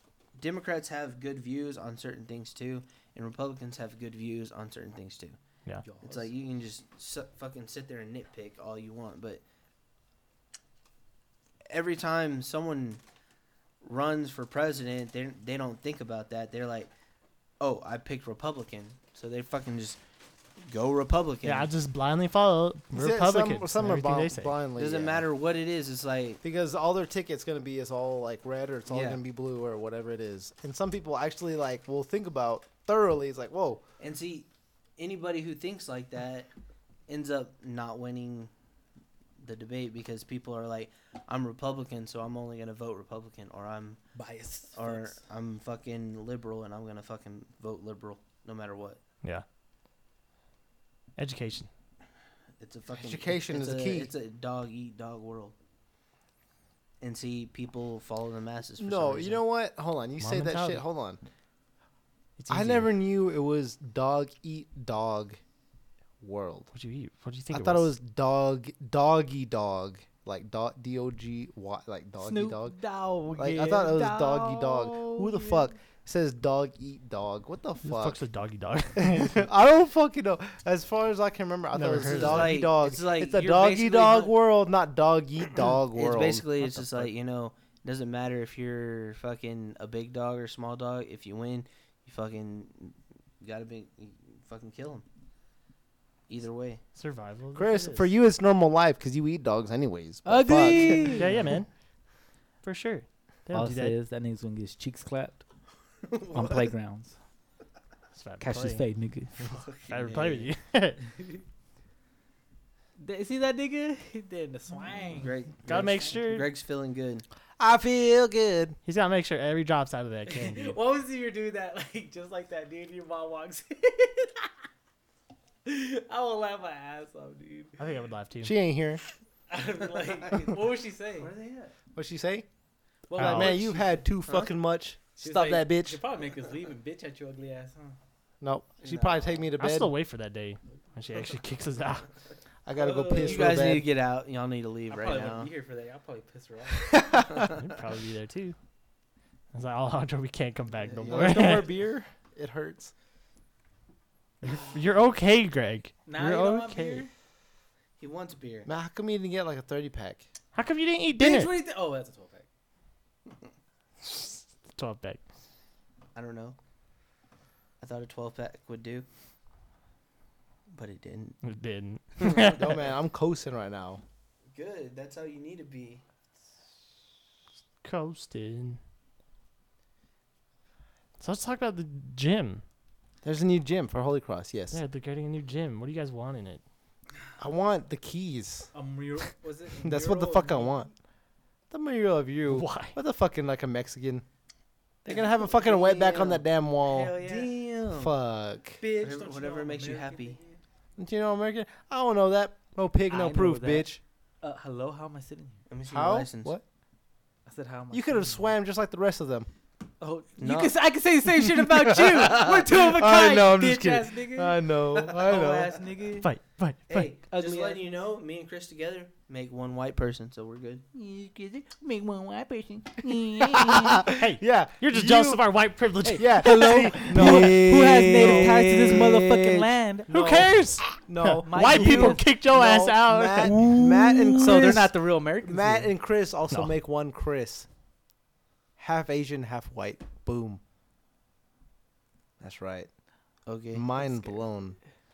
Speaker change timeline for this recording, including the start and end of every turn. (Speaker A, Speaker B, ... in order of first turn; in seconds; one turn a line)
Speaker A: 0.4-5.4
Speaker B: 5.8-6.3
Speaker A: 6.0-9.4
Speaker A: 11.7-13.0
Speaker A: 13.8-16.9
Speaker A: 17.6-20.0
Speaker A: 20.7-21.7
Speaker C: 21.4-24.6
Speaker D: 22.9-25.3
Speaker A: 24.8-26.4
Speaker D: 26.4-33.8
Speaker A: 28.9-29.2
Speaker A: 34.0-36.5
Speaker A: 37.1-38.5
Speaker A: 39.4-44.0
Speaker B: 44.1-45.2
Speaker A: 44.7-49.0
Speaker C: 51.2-51.7
Speaker A: 52.6-55.5
Speaker D: 53.0-54.1
Speaker A: 57.0-59.4
Speaker D: 58.8-61.2
Speaker C: 60.2-60.8
Speaker C: 62.4-62.9
Speaker D: 62.5-65.4
Speaker D: 66.2-66.7
Speaker C: 66.7-67.9
Speaker D: 67.5-72.8
Speaker B: 72.2-75.8
Speaker D: 73.3-78.2
Speaker C: 77.8-79.4
Speaker D: 79.0-87.1
Speaker C: 81.7-82.6
Speaker A: 82.0-84.3
Speaker A: 85.9-95.0
Speaker A: 96.3-96.8
Speaker C: 97.0-98.1
Speaker D: 97.5-101.2
Speaker B: 100.2-101.3
Speaker C: 101.2-101.7
Speaker C: 102.6-104.0
Speaker B: 103.5-105.4
Speaker A: 106.0-106.7
Speaker B: 106.3-107.2
Speaker C: 108.1-108.8
Speaker B: 108.4-109.5
Speaker A: 109.4-110.5
Speaker C: 109.9-111.1
Speaker B: 111.1-111.4
Speaker B: 113.0-116.1
Speaker A: 115.2-117.2
Speaker C: 115.7-116.4
Speaker D: 117.6-118.8
Speaker C: 118.8-120.8
Speaker B: 120.3-124.5
Speaker B: 125.7-127.8
Speaker C: 127.8-128.6
Speaker D: 128.4-129.0
Speaker B: 129.5-131.3
Speaker A: 131.2-131.7
Speaker D: 131.9-132.5
Speaker B: 133.1-134.0
Speaker D: 133.2-136.0
Speaker C: 133.2-133.7
Speaker B: 135.2-138.0
Speaker D: 138.4-139.9
Speaker A: 138.8-139.3
Speaker C: 139.6-142.1
Speaker D: 142.7-143.9
Speaker B: 142.8-143.6
Speaker A: 143.1-145.5
Speaker B: 144.9-147.0
Speaker C: 147.4-148.6
Speaker C: 149.5-151.8
Speaker D: 151.0-152.9
Speaker C: 154.4-157.0
Speaker B: 156.1-157.1
Speaker A: 158.0-158.7
Speaker D: 158.7-160.2
Speaker C: 160.5-161.5
Speaker B: 161.2-162.5
Speaker C: 164.0-165.2
Speaker A: 166.2-166.6
Speaker A: 167.8-169.1
Speaker A: 170.7-171.4
Speaker C: 171.4-172.7
Speaker A: 172.2-172.6
Speaker D: 172.3-174.0
Speaker A: 174.6-176.0
Speaker C: 177.8-178.8
Speaker C: 181.2-182.6
Speaker D: 183.2-184.8
Speaker C: 184.7-186.6
Speaker D: 187.4-188.7
Speaker B: 188.7-190.9
Speaker D: 189.8-190.9
Speaker D: 191.7-194.2
Speaker C: 192.5-193.0
Speaker D: 195.1-197.2
Speaker B: 195.1-197.5
Speaker A: 197.2-198.1
Speaker D: 197.9-198.8
Speaker B: 198.8-200.6
Speaker A: 199.0-200.4
Speaker D: 201.0-204.0
Speaker B: 203.1-205.6
Speaker A: 205.7-206.6
Speaker D: 205.9-206.6
Speaker B: 207.5-208.5
Speaker D: 207.9-209.5
Speaker B: 210.0-216.3
Speaker A: 210.4-210.8
Speaker D: 211.6-215.7
Speaker C: 216.2-217.1
Speaker A: 216.9-220.8
Speaker B: 217.3-217.8
Speaker B: 220.9-224.0
Speaker D: 223.5-225.5
Speaker C: 224.0-228.6
Speaker B: 226.0-230.5
Speaker D: 226.2-237.7
Speaker C: 230.1-233.6
Speaker B: 231.4-232.3
Speaker A: 233.5-234.2
Speaker B: 233.6-235.9
Speaker C: 236.5-236.8
Speaker D: 238.8-240.6
Speaker D: 242.4-242.9
Speaker A: 243.5-243.9
Speaker D: 243.7-244.8
Speaker B: 244.0-244.4